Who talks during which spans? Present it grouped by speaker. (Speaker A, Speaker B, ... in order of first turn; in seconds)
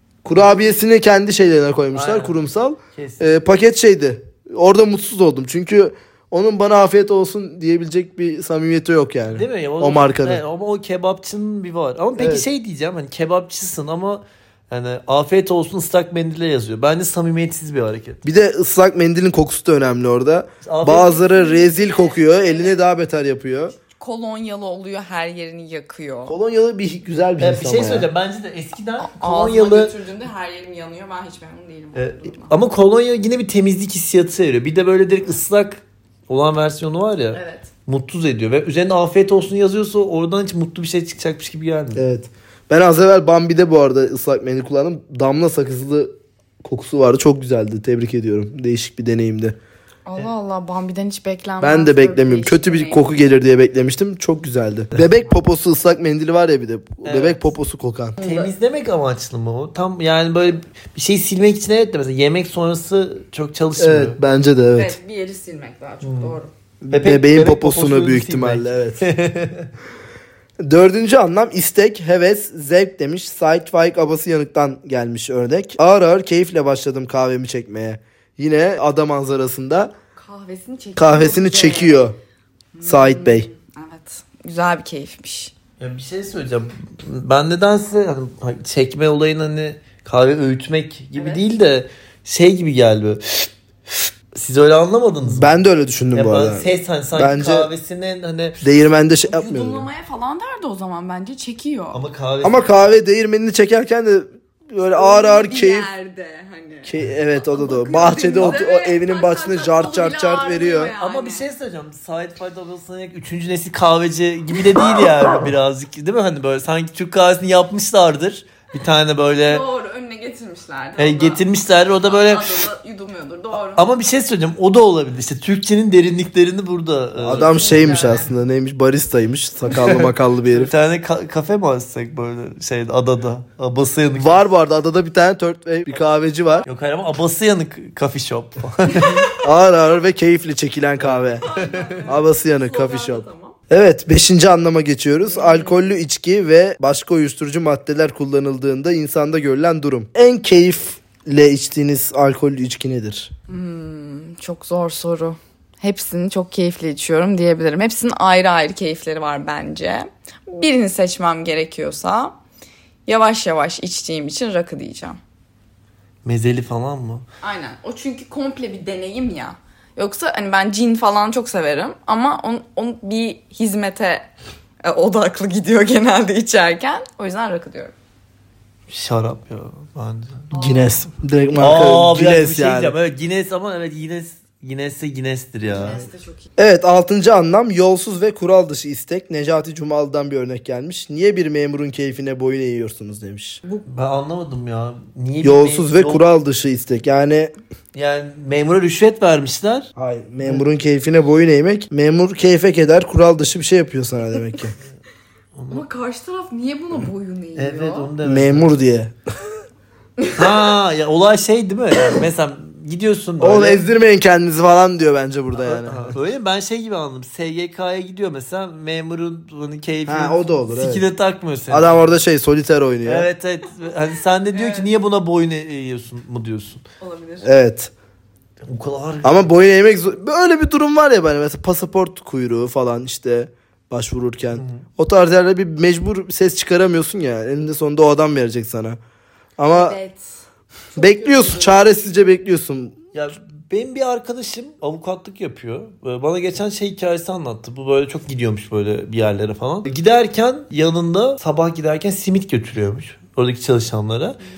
Speaker A: 0.2-10.4, 12.2-12.4, 18.2-23.8, 26.3-28.1, 42.0-49.6, 51.6-58.2, 63.8-65.0, 66.8-69.0, 70.6-79.9, 81.0-82.2, 82.8-83.5, 95.2-97.7, 98.6-99.8, 102.4-105.9, 106.8-110.9, 127.2-130.7, 134.2-136.7, 139.4-141.4, 142.1-153.3, 180.5-182.9, 186.6-193.6, 195.4-197.5, 200.0-204.7, 208.2-209.1, 213.4-216.1, 220.1-221.0, 221.7-223.3, 227.4-227.9, 229.2-239.0, 239.6-240.0, 241.0-242.9
Speaker B: 1.9-2.4, 2.9-3.4, 9.3-18.2, 20.6-21.2, 27.4-29.9, 31.9-42.0, 57.0-57.4, 58.2-64.2, 66.0-66.4, 66.9-69.7, 85.8-95.6, 96.1-98.6, 101.9-102.7, 111.0-119.6, 121.0-122.7, 123.7-128.1, 129.7-134.4, 136.6-139.3, 141.0-142.0, 166.2-167.2, 178.9-180.5, 181.6-186.0, 193.8-196.2, 197.9-199.9, 205.5-205.8, 207.6-208.7, 210.3-213.8, 215.5-222.0, 223.0-226.8, 228.7-229.5, 234.5-234.8, 243.1-254.4
Speaker C: 21.0-22.8, 23.8-26.3, 29.0-32.5, 37.3-37.7, 50.0-53.0, 58.2-58.5, 64.7-66.5, 80.2-82.1, 82.7-85.5, 91.1-91.4, 99.2-102.0, 104.9-111.5, 119.4-121.5, 122.0-123.8, 127.3-128.3, 141.4-143.6, 145.2-145.8, 153.5-162.3, 163.1-165.2, 167.4-174.3, 174.8-177.9, 180.5-181.1, 185.7-186.5, 205.7-208.1, 210.2-210.6, 224.5-224.9, 227.0-227.5, 239.7-240.2, 240.9-241.9